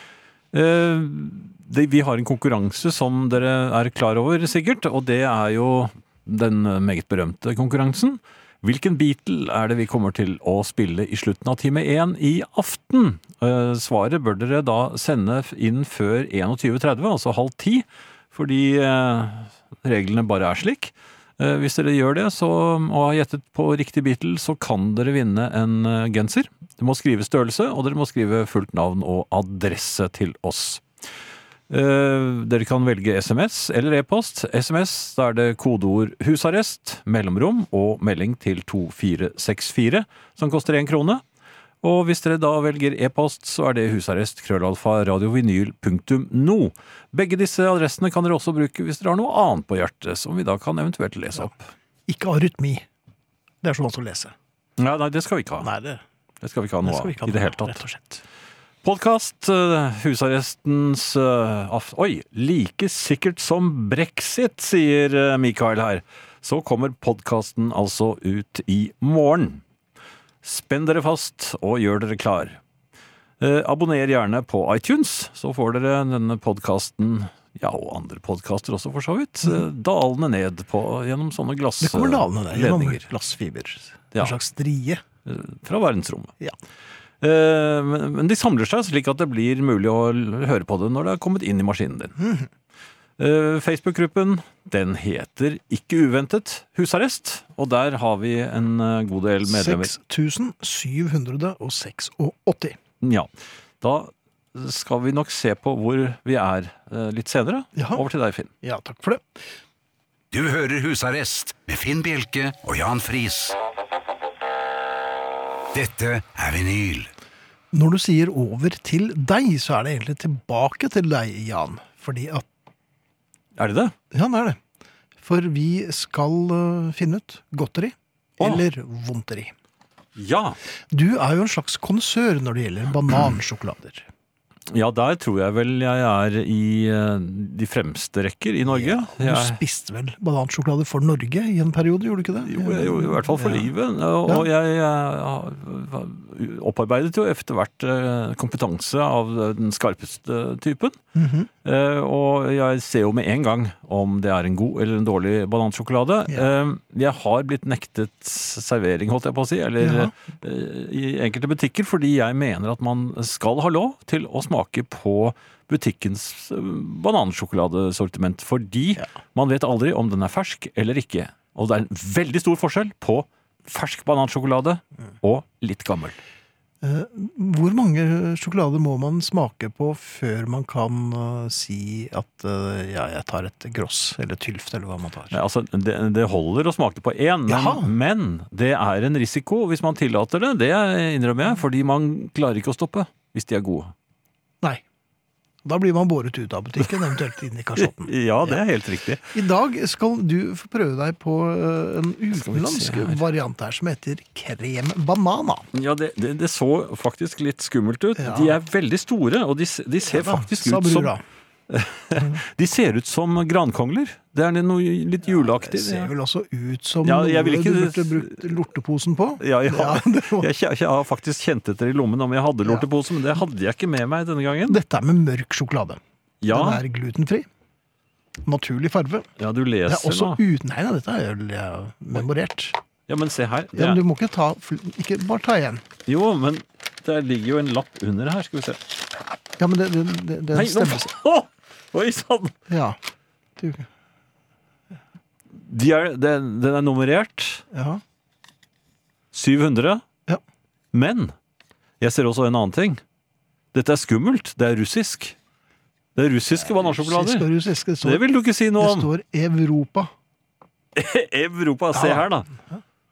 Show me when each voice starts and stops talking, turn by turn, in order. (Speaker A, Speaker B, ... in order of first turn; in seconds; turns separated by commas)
Speaker A: 0.5-30.8, Speaker A: 31.7-41.2, Speaker A: 41.8-51.7, Speaker B: 52.1-52.9, Speaker B: 53.6-54.3, Speaker A: 54.8-55.7, Speaker B: 55.6-56.0, Speaker A: 56.4-57.8, Speaker B: 56.8-58.2, Speaker A: 58.8-69.6, Speaker A: 70.4-72.6, Speaker A: 73.4-83.0, Speaker B: 81.8-85.0, Speaker A: 85.3-86.3, Speaker A: 87.2-92.2, Speaker B: 92.2-92.5, Speaker A: 93.2-99.9, Speaker B: 99.5-102.8, Speaker A: 103.0-103.3, Speaker A: 103.8-108.5, Speaker B: 107.8-108.0, Speaker B: 108.6-109.3, Speaker C: 110.3-113.6, Speaker C: 115.7-117.1, Speaker B: 117.7-122.5, Speaker A: 123.6-124.0, Speaker B: 124.1-124.6, Speaker B: 125.2-129.5, Speaker A: 130.2-130.6, Speaker B: 130.9-134.1, Speaker A: 134.7-139.6, Speaker B: 138.7-143.7, Speaker A: 142.4-151.0, Speaker B: 151.2-151.5, Speaker A: 151.7-176.2, Speaker B: 159.8-160.1, Speaker B: 176.8-185.4, Speaker A: 185.3-193.9, Speaker B: 187.5-187.9, Speaker B: 195.7-198.6, Speaker A: 197.8-199.2, Speaker B: 199.3-205.7, Speaker A: 202.3-203.2, Speaker A: 205.7-211.1, Speaker B: 208.2-208.6, Speaker B: 210.1-211.2, Speaker A: 211.7-216.1, Speaker B: 215.3-220.5, Speaker A: 217.0-218.5, Speaker A: 219.4-224.8, Speaker B: 224.7-226.0, Speaker A: 226.4-226.8, Speaker B: 226.5-227.5, Speaker B: 228.4-229.3, Speaker A: 229.4-230.4, Speaker B: 229.9-232.8, Speaker A: 233.1-234.0, Speaker B: 233.7-235.8, Speaker A: 236.1-238.8, Speaker B: 239.6-241.1, Speaker A: 240.5-242.6, Speaker B: 242.7-243.0, Speaker B: 243.6-243.9, Speaker A: 245.6-247.6, Speaker B: 247.7-248.0, Speaker A: 249.3-250.0, Speaker A: 250.9-251.3, Speaker A: 252.0-253.0, Speaker A: 253.7-255.4, Speaker A: 256.2-257.5, Speaker B: 256.6-258.2, Speaker A: 258.0-259.1, Speaker B: 258.8-260.1, Speaker A: 260.9-262.5, Speaker B: 261.9-262.8